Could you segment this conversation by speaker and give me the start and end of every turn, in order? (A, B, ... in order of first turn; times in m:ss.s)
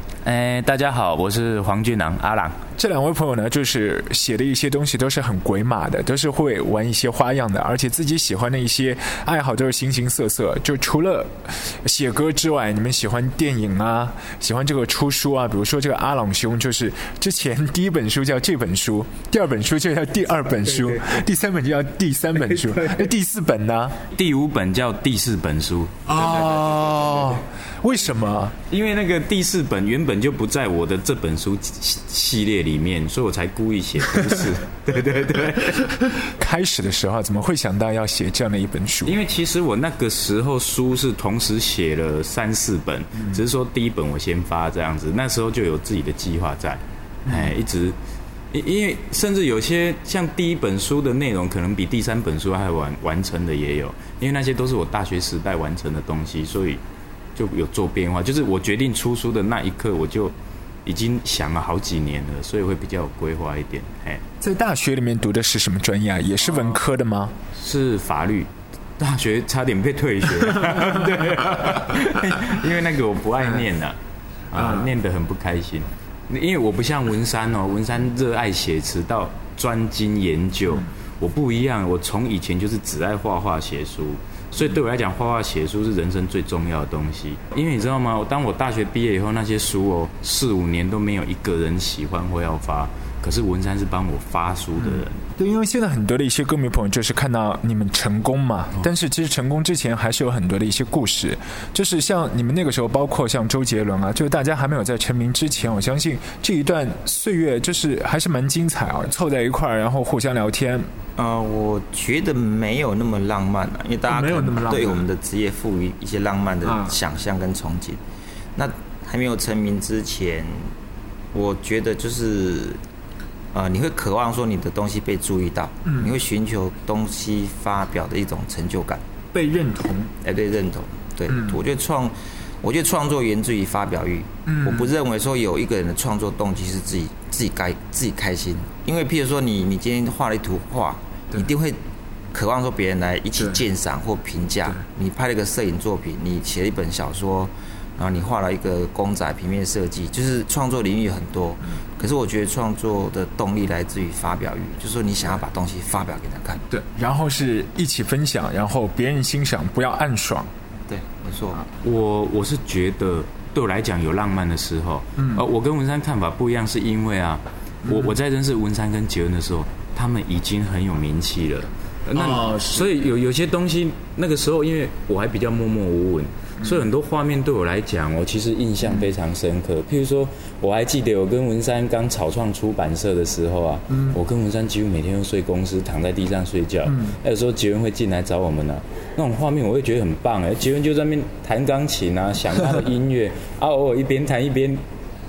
0:00.2-0:02.6 A
0:02.8-0:24.0 B
0:20.7-0:21.2 A
0:22.3-0:23.1 A
0:24.1-0:27.4 A
0:26.1-0:28.5 B
0:28.7-0:36.0 A
0:36.0-0:39.2 B
0:39.0-0:48.0 A
0:47.3-0:47.5 B
0:48.5-0:56.8 A
0:57.3-1:04.2 A
1:04.4-1:07.3 B
1:06.4-1:06.8 A
1:07.6-1:14.0 A
1:10.4-1:12.1 B
1:14.5-1:35.2 A
1:14.6-1:14.9 B
1:34.8-1:50.9 B
1:51.2-1:58.0 C
1:54.1-1:55.0 B
1:56.6-1:57.0 B
1:58.6-2:00.7 C
2:01.3-2:02.8 C
2:03.5-2:09.0 C
2:05.9-2:06.1 B
2:09.3-2:10.1 B
2:10.2-2:21.8 C
2:11.3-2:11.6 B
2:14.5-2:14.9 B
2:22.3-2:36.6 C
2:36.7-2:40.5 B
2:40.9-2:41.6 C
2:41.8-3:14.8 A
2:45.2-2:45.4 B
2:47.9-2:48.2 B
2:52.2-2:52.9 B
3:03.9-3:04.2 B
3:06.9-3:07.2 B